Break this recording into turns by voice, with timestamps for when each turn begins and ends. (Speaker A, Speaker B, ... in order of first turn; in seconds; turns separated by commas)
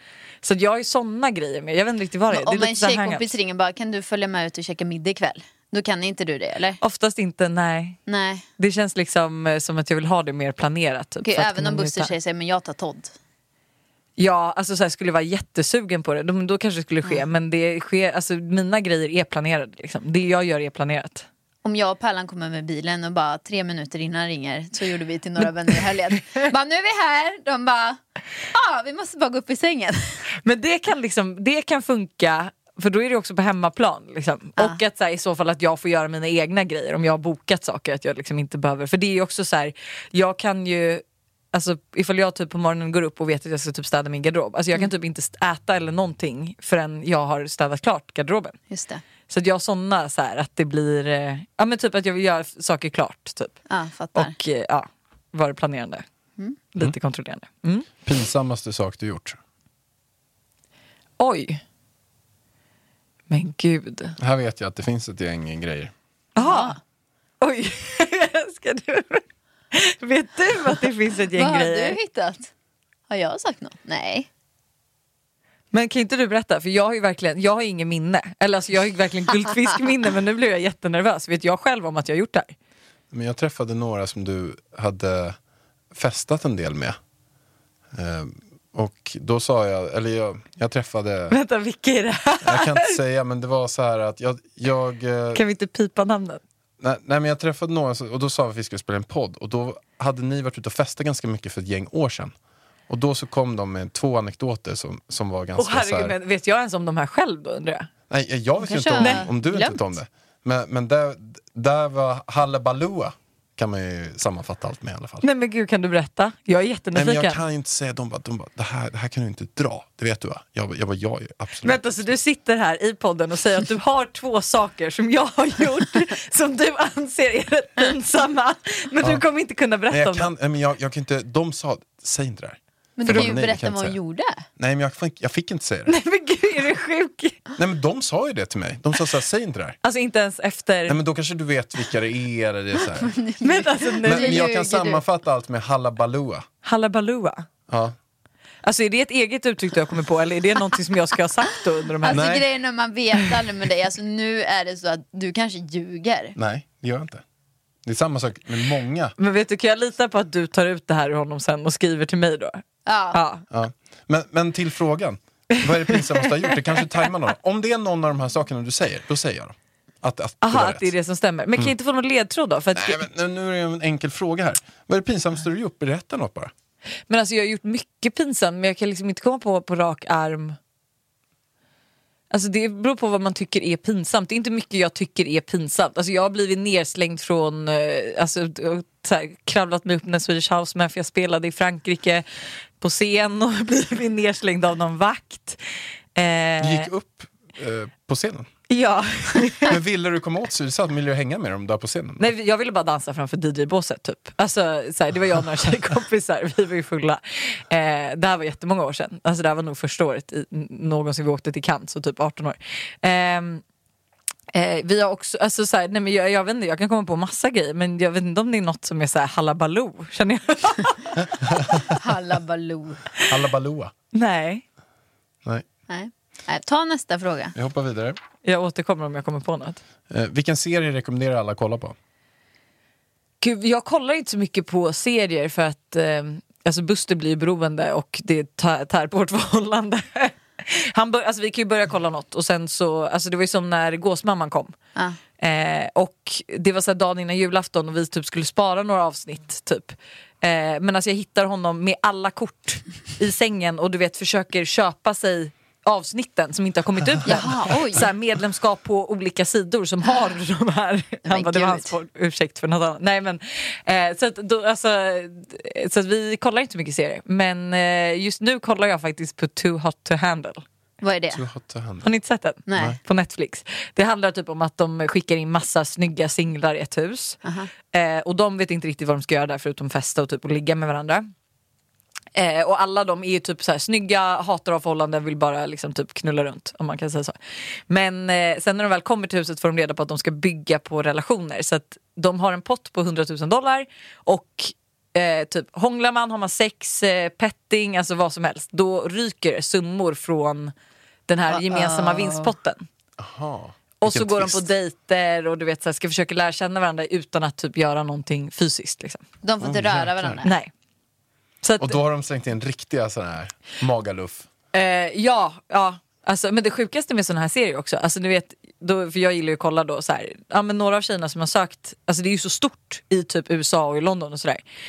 Speaker A: 0.4-3.3, Speaker B: 2.3-6.8, Speaker A: 6.8-8.0, Speaker B: 8.1-8.4, Speaker A: 8.6-12.1, Speaker B: 11.2-13.1, Speaker A: 14.2-21.3, Speaker B: 21.6-28.0, Speaker A: 25.4-25.8, Speaker B: 28.5-30.2, Speaker A: 30.4-48.6, Speaker B: 48.7-49.0, Speaker A: 49.3-53.6, Speaker B: 53.7-54.4, Speaker A: 54.1-56.0, Speaker A: 56.7-57.9, Speaker C: 58.0-59.4, Speaker A: 61.2-61.6, Speaker A: 63.3-64.2, Speaker C: 64.2-65.9, Speaker A: 66.4-66.8, Speaker B: 66.4-66.8, Speaker A: 67.4-72.0, Speaker B: 71.3-72.5, Speaker B: 73.1-74.3, Speaker A: 75.7-82.5, Speaker C: 83.1-85.4, Speaker C: 85.9-87.0, Speaker C: 87.9-91.4, Speaker A: 91.3-93.0, Speaker C: 92.4-95.4, Speaker A: 95.3-96.4, Speaker C: 96.8-102.3, Speaker C: 102.9-106.2, Speaker A: 105.6-107.9, Speaker C: 108.1-115.2, Speaker B: 108.6-109.8, Speaker A: 109.0-109.3, Speaker A: 115.2-117.4, Speaker C: 116.9-121.8, Speaker A: 121.6-130.3, Speaker C: 129.9-134.0, Speaker B: 133.0-134.4, Speaker C: 134.6-135.9, Speaker A: 135.9-137.4, Speaker C: 137.6-139.8, Speaker A: 139.8-141.0, Speaker C: 140.9-143.2, Speaker B: 143.0-145.0, Speaker A: 143.4-144.5, Speaker C: 144.0-146.5, Speaker A: 146.6-147.5, Speaker C: 147.7-147.9, Speaker A: 148.6-152.3, Speaker B: 152.0-156.4, Speaker C: 152.1-152.4, Speaker C: 156.4-157.2, Speaker C: 157.8-159.2, Speaker A: 159.2-163.4, Speaker B: 162.9-163.2, Speaker C: 163.5-170.9, Speaker A: 165.5-167.0, Speaker A: 170.4-173.0, Speaker C: 172.8-176.5, Speaker A: 177.1-180.6, Speaker A: 182.3-192.2, Speaker A: 192.8-195.6, Speaker A: 196.2-196.9, Speaker C: 196.6-198.5, Speaker A: 198.7-199.8, Speaker C: 199.7-202.3, Speaker A: 202.2-213.6, Speaker A: 214.5-221.1, Speaker B: 221.9-223.0, Speaker C: 223.3-223.9, Speaker A: 224.1-224.6, Speaker B: 225.9-227.6, Speaker C: 227.6-228.2, Speaker A: 228.4-229.8, Speaker C: 230.1-232.0, Speaker A: 233.4-244.8, Speaker A: 245.4-270.6, Speaker B: 257.3-258.1, Speaker B: 261.2-261.9, Speaker B: 271.0-271.4, Speaker C: 271.3-272.1, Speaker A: 272.0-277.4, Speaker B: 272.7-273.0, Speaker B: 277.4-277.7, Speaker A: 277.9-281.3, Speaker A: 282.4-287.4, Speaker A: 287.9-300.7, Speaker A: 301.3-302.9, Speaker B: 301.5-302.5, Speaker C: 303.2-304.7, Speaker A: 304.0-309.2, Speaker B: 309.4-310.5, Speaker C: 309.6-310.4, Speaker A: 310.4-310.7, Speaker A: 311.6-312.0, Speaker C: 311.8-314.5, Speaker A: 314.7-324.6